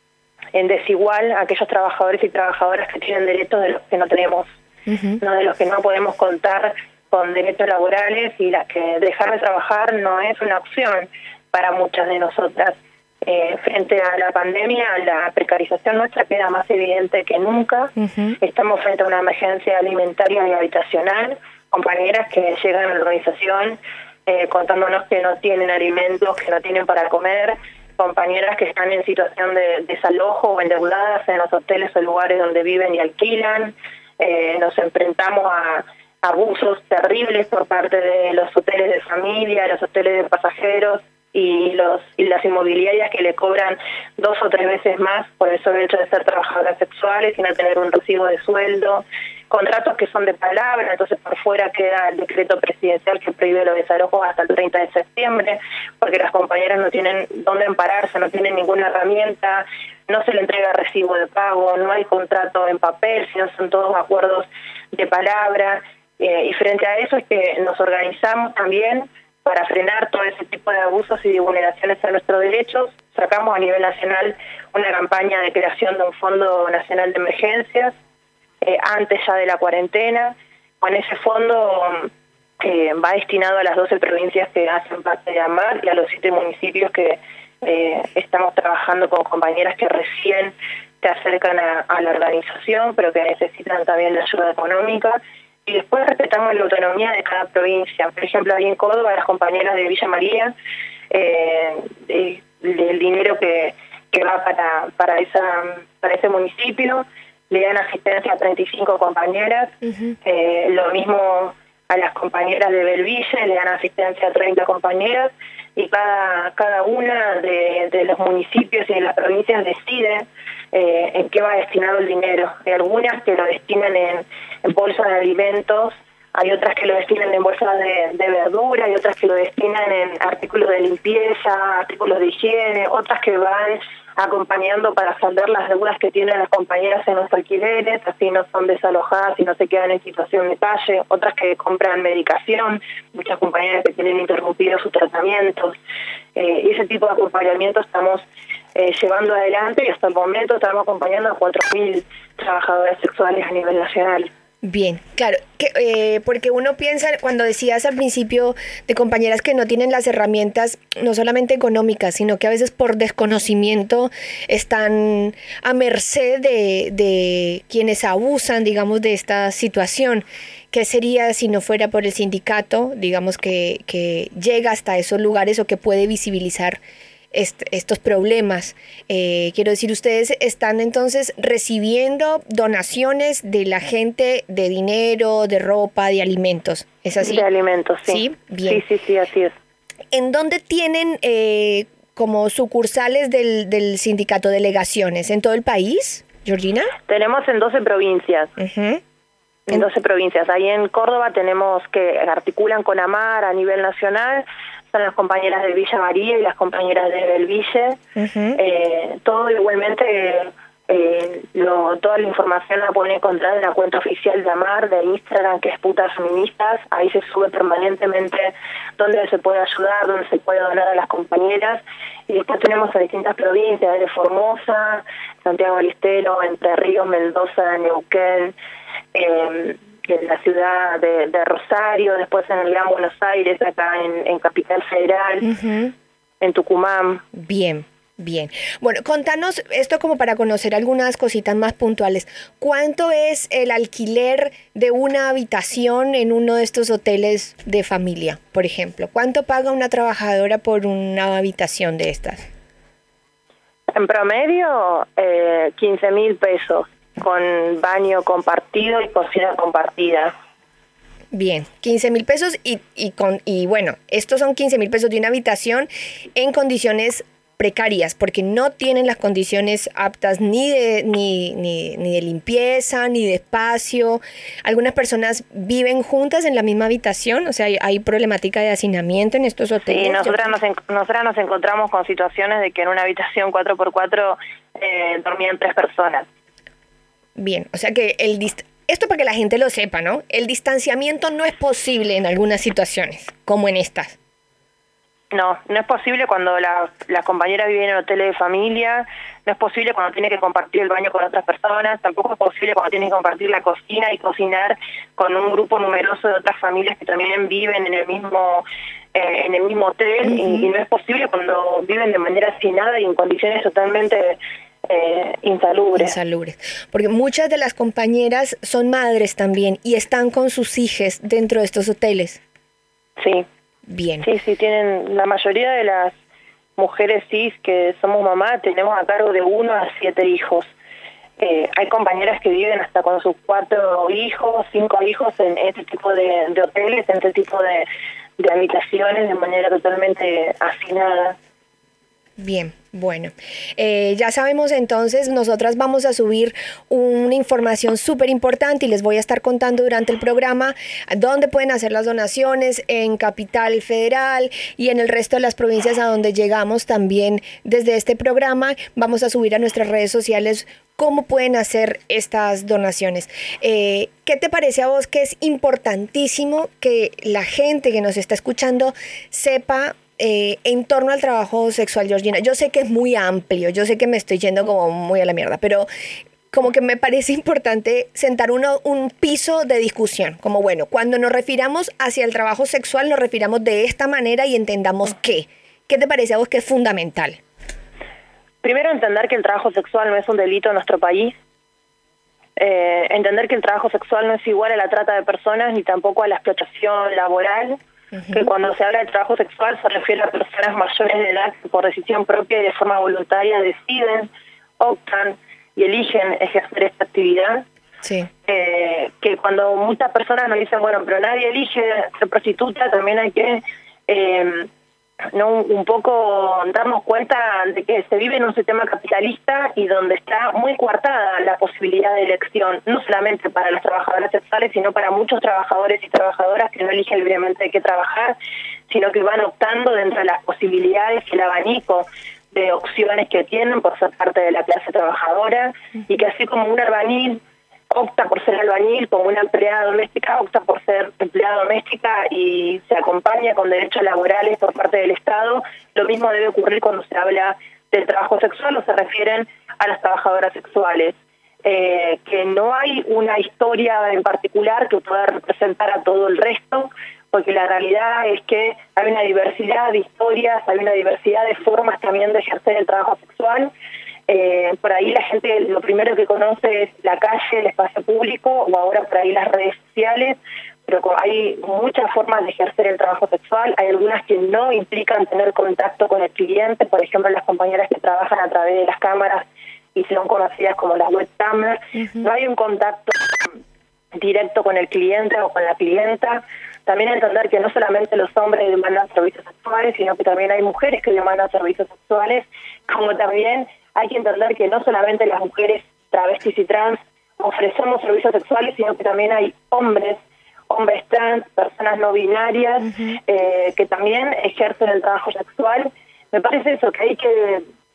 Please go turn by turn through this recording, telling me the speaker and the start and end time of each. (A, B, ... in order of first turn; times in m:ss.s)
0:00.5-0:04.5 A
0:04.9-0:05.2 B
0:05.2-1:17.9 A
0:18.0-0:18.4 B
1:18.6-1:40.5 A
1:41.1-2:25.7 A
2:26.3-2:28.2 A
2:28.7-2:34.3 A
2:34.6-2:56.8 B
2:57.3-3:07.4 B
3:07.2-3:09.5 A
3:08.0-3:08.8 B
3:10.1-3:16.9 B
3:17.1-3:18.5 A
3:18.6-3:19.0 B
3:19.7-3:28.0 A
3:28.2-3:28.6 B
3:28.6-3:48.5 A
3:49.1-3:55.4 A
3:55.4-3:55.9 B
3:56.4-3:57.2 A
3:57.3-4:12.4 B
4:13.9-4:20.3 A
4:21.3-4:40.4 B
4:39.9-4:46.3 A
4:47.4-4:54.2 B
4:55.3-5:16.2 A
5:10.3-5:10.7 B
5:16.0-5:22.4 B
5:23.2-5:23.4 A
5:23.9-5:24.3 B
5:24.2-5:26.1 A
5:26.8-5:30.7 A
5:31.4-5:37.8 A
5:38.4-5:41.4 A
5:42.4-6:15.9 B
6:16.5-6:27.4 B
6:28.6-6:31.3 A
6:32.6-6:37.8 A
6:38.1-6:38.4 B
6:38.3-6:47.6 A
6:48.0-6:48.3 B
6:48.4-6:54.7 A
6:55.3-7:08.4 A
7:08.9-7:43.7 A
7:44.3-8:03.5 A
8:02.0-8:02.2 B
8:04.1-8:20.2 A
8:20.7-8:27.6 A